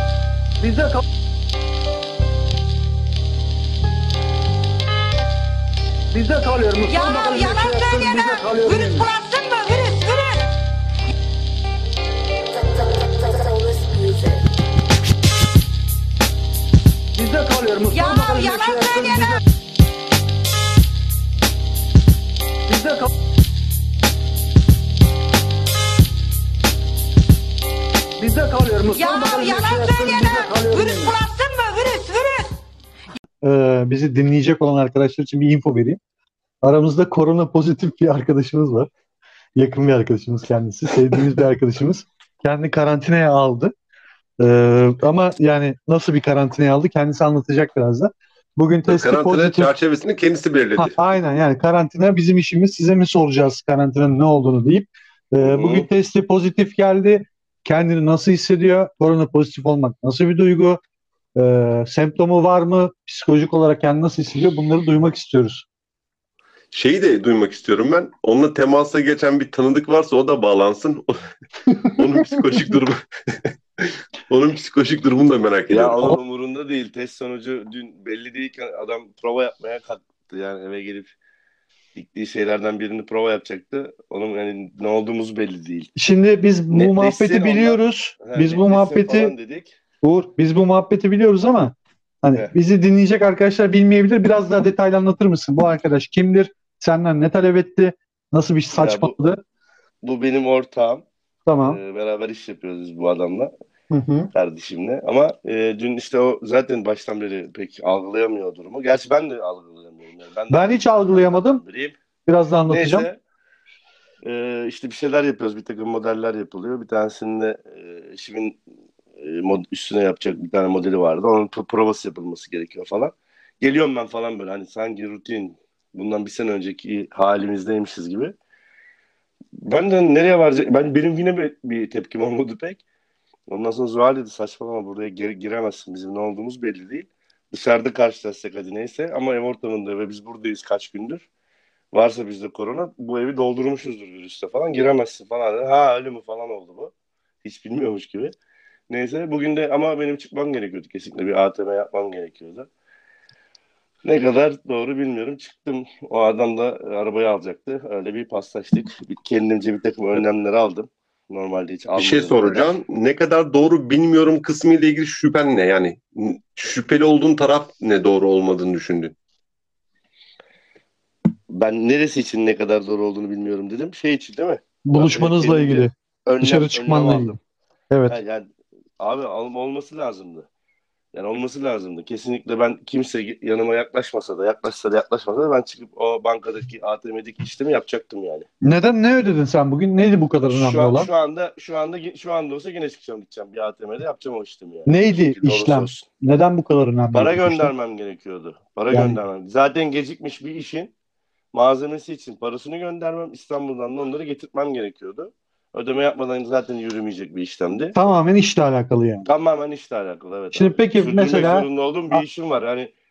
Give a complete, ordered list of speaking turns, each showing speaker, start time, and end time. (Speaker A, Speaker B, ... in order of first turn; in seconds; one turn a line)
Speaker A: 0.6-1.0
Speaker A: 6.1-9.0
Speaker B: 6.8-10.5
Speaker A: 17.1-19.3
Speaker B: 17.9-19.4
Speaker A: 22.7-23.1
Speaker A: 28.2-31.1
Speaker B: 28.9-32.5
Speaker C: 33.4-36.0
Speaker C: 36.6-38.9
Speaker C: 39.5-43.7
Speaker C: 44.4-49.7
Speaker D: 48.9-51.0
Speaker C: 50.8-60.8
Speaker E: 55.4-55.9
Speaker C: 61.4-65.7
Speaker D: 66.7-71.2
Speaker D: 71.9-76.1
Speaker E: 75.7-81.1
Speaker E: 81.9-85.9
Speaker C: 86.0-89.3
Speaker E: 86.7-89.7
Speaker C: 90.0-99.4
Speaker E: 98.8-99.1
Speaker E: 100.0-101.0
Speaker C: 101.5-101.8
Speaker E: 101.6-103.5
Speaker C: 103.9-104.3
Speaker E: 104.3-112.0
Speaker C: 110.5-111.6
Speaker C: 112.3-113.1
Speaker E: 112.7-113.2
Speaker E: 114.2-118.6
Speaker E: 119.2-128.3
Speaker E: 129.6-132.8
Speaker E: 133.5-141.2
Speaker E: 141.9-146.9
Speaker E: 147.4-148.3
Speaker E: 148.9-152.7
Speaker E: 154.0-162.7
Speaker D: 161.9-169.1
Speaker E: 171.5-177.4
Speaker C: 174.8-177.3
Speaker C: 177.9-178.2
Speaker E: 178.1-178.5
Speaker E: 179.0-180.5
Speaker E: 181.1-188.5
Speaker C: 188.6-191.1
Speaker E: 190.5-196.0
Speaker C: 194.9-197.7
Speaker E: 197.1-200.9
Speaker C: 198.9-199.2
Speaker E: 201.5-207.9
Speaker C: 207.9-209.3
Speaker E: 209.3-212.9
Speaker C: 210.5-212.2